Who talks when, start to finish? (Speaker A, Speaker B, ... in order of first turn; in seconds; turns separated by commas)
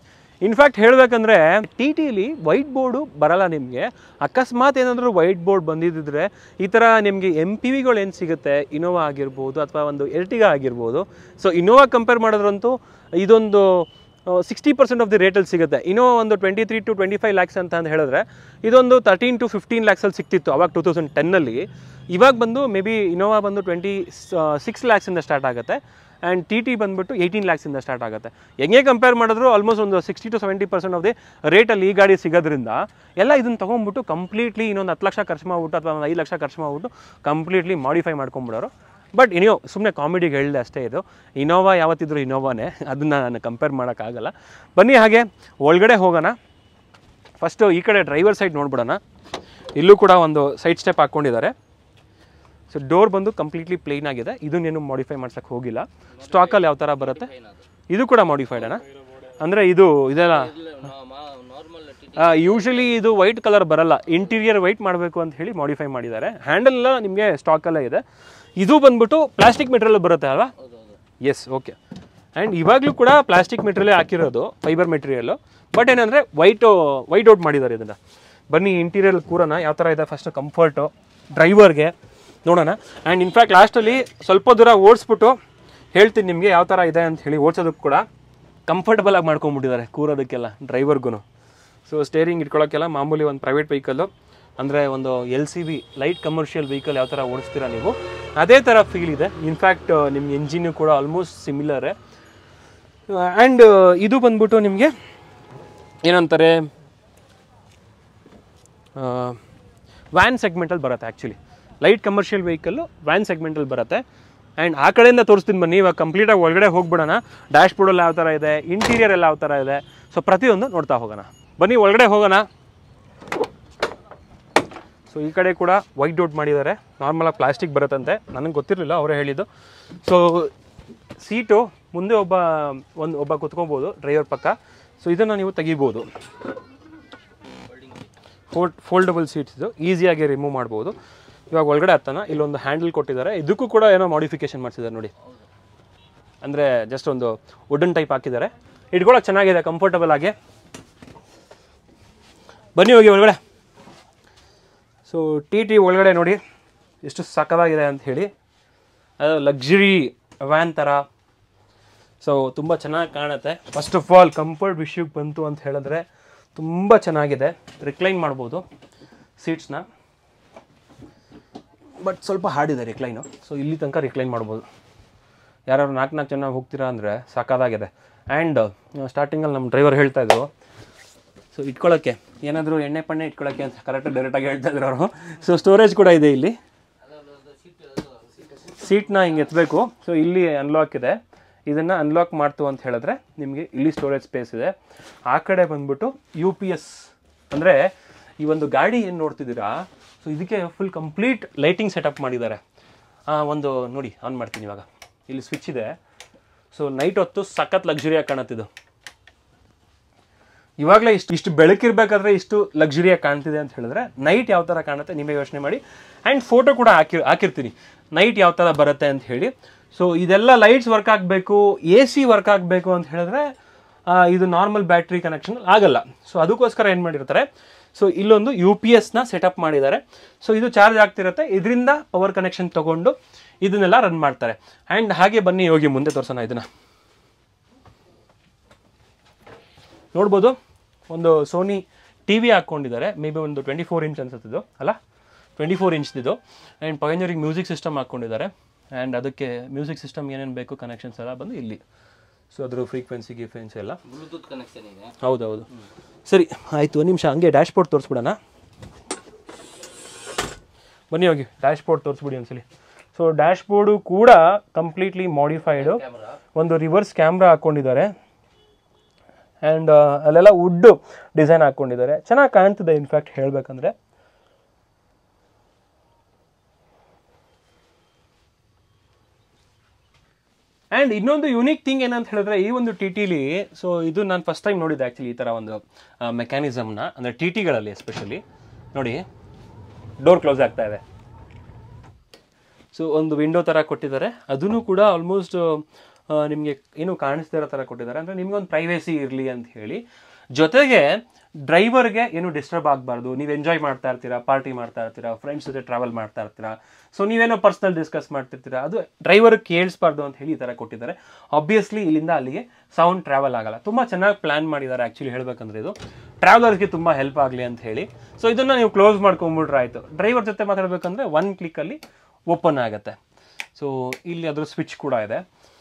Speaker A: 0.4-46.4, Speaker A: 47.4-49.0, Speaker A: 49.8-51.5, Speaker A: 52.7-57.3, Speaker B: 56.2-57.6, Speaker A: 57.9-58.9, Speaker A: 59.4-60.5, Speaker B: 60.2-63.0, Speaker A: 62.1-68.0, Speaker A: 68.6-70.5, Speaker B: 70.6-71.0, Speaker A: 71.2-71.8, Speaker A: 72.3-78.0, Speaker A: 78.5-81.9, Speaker A: 82.4-85.3, Speaker A: 85.9-88.0, Speaker A: 88.7-91.2, Speaker A: 91.9-101.9, Speaker A: 103.1-104.9, Speaker A: 106.0-106.7, Speaker A: 109.0-109.4, Speaker A: 110.1-114.0, Speaker A: 114.6-122.5, Speaker A: 125.1-129.5, Speaker A: 130.0-130.5, Speaker A: 131.2-136.1, Speaker B: 137.7-138.0, Speaker A: 138.5-140.9, Speaker A: 141.5-145.1, Speaker A: 146.4-150.3, Speaker A: 152.8-153.4, Speaker A: 155.1-156.4, Speaker A: 157.0-158.3, Speaker A: 159.2-161.0, Speaker A: 162.2-168.6, Speaker A: 169.4-169.8, Speaker A: 172.0-174.6, Speaker A: 175.7-180.5, Speaker A: 181.5-186.5, Speaker B: 187.0-189.3, Speaker A: 188.6-194.7, Speaker A: 195.3-202.6, Speaker A: 203.3-205.9, Speaker A: 206.7-208.7, Speaker A: 210.8-223.5, Speaker A: 224.1-236.7, Speaker A: 240.1-240.6, Speaker A: 241.1-245.0, Speaker A: 245.6-251.8, Speaker A: 252.5-254.1, Speaker B: 254.1-255.2, Speaker A: 255.2-255.7, Speaker A: 256.2-258.4, Speaker A: 261.1-268.1, Speaker B: 265.8-266.4, Speaker A: 269.6-273.9, Speaker A: 280.9-288.4, Speaker A: 288.9-289.2, Speaker A: 290.2-291.0, Speaker A: 292.9-300.0, Speaker A: 300.5-323.2, Speaker A: 323.8-325.4